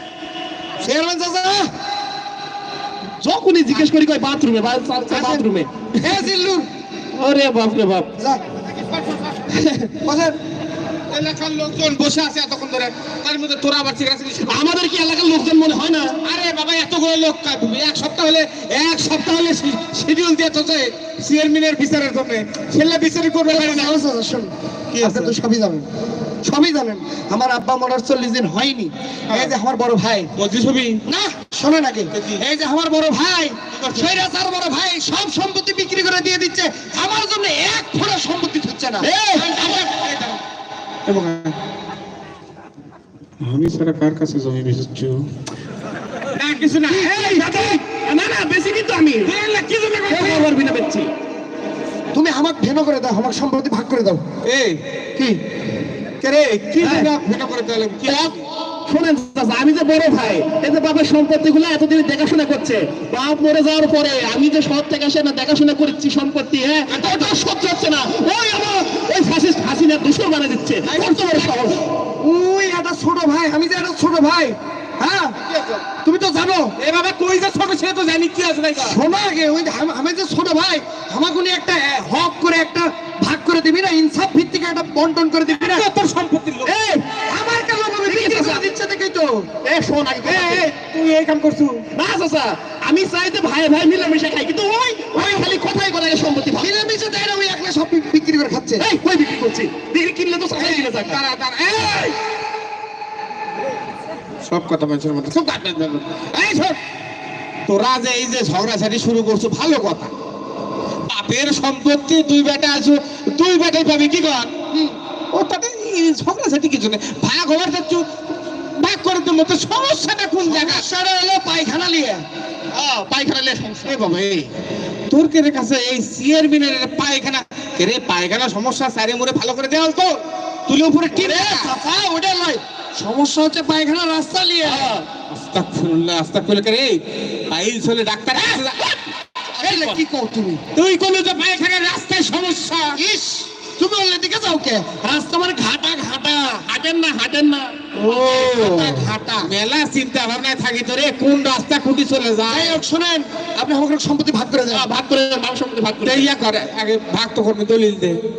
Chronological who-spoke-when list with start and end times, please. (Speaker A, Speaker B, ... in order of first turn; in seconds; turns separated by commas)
Speaker A: 0.8-1.7, Speaker B: 3.2-5.9, Speaker A: 5.1-5.4, Speaker A: 6.0-6.7, Speaker B: 7.2-8.1, Speaker C: 8.7-9.4, Speaker B: 9.5-9.9, Speaker A: 10.0-10.3, Speaker C: 11.1-14.7, Speaker B: 14.4-16.1, Speaker C: 16.2-24.0, Speaker A: 23.5-25.9, Speaker C: 24.9-25.3, Speaker A: 26.4-30.3, Speaker C: 29.3-29.5, Speaker C: 30.4-31.0, Speaker A: 31.1-39.5, Speaker C: 32.1-32.4, Speaker C: 33.7-34.3, Speaker B: 39.0-39.5, Speaker C: 39.4-40.4, Speaker C: 41.1-41.5, Speaker C: 43.4-45.2, Speaker C: 46.3-47.5, Speaker A: 46.9-47.8, Speaker B: 47.5-49.3, Speaker C: 49.2-50.5, Speaker B: 50.1-51.1, Speaker A: 52.1-54.2, Speaker C: 54.4-54.8, Speaker C: 56.2-58.4, Speaker A: 56.8-57.1, Speaker B: 58.0-71.8, Speaker C: 66.9-67.3, Speaker C: 70.8-71.5, Speaker A: 72.2-75.3, Speaker C: 75.5-75.8, Speaker A: 76.0-76.7, Speaker C: 76.8-79.0, Speaker A: 78.8-85.9, Speaker C: 85.5-86.7, Speaker B: 86.7-87.0, Speaker A: 87.3-89.4, Speaker B: 88.0-88.6, Speaker B: 89.6-90.7, Speaker C: 90.2-91.8, Speaker B: 91.9-96.7, Speaker A: 95.2-95.5, Speaker A: 96.6-98.8, Speaker B: 98.8-101.2, Speaker C: 100.5-102.2, Speaker C: 104.4-106.8, Speaker C: 107.7-110.1, Speaker C: 111.1-114.5, Speaker C: 115.3-118.0, Speaker C: 118.7-120.8, Speaker A: 120.4-122.2, Speaker B: 122.7-123.9, Speaker C: 123.8-124.5, Speaker C: 125.1-130.2, Speaker C: 130.7-131.7, Speaker A: 131.1-134.9, Speaker B: 134.6-135.1, Speaker C: 135.3-138.8, Speaker B: 139.6-140.0, Speaker A: 139.6-140.6, Speaker C: 140.7-143.0, Speaker A: 143.0-146.6, Speaker B: 146.7-147.7, Speaker C: 148.0-152.8, Speaker A: 148.2-149.4, Speaker A: 152.5-154.9, Speaker B: 154.7-156.3, Speaker C: 156.0-158.2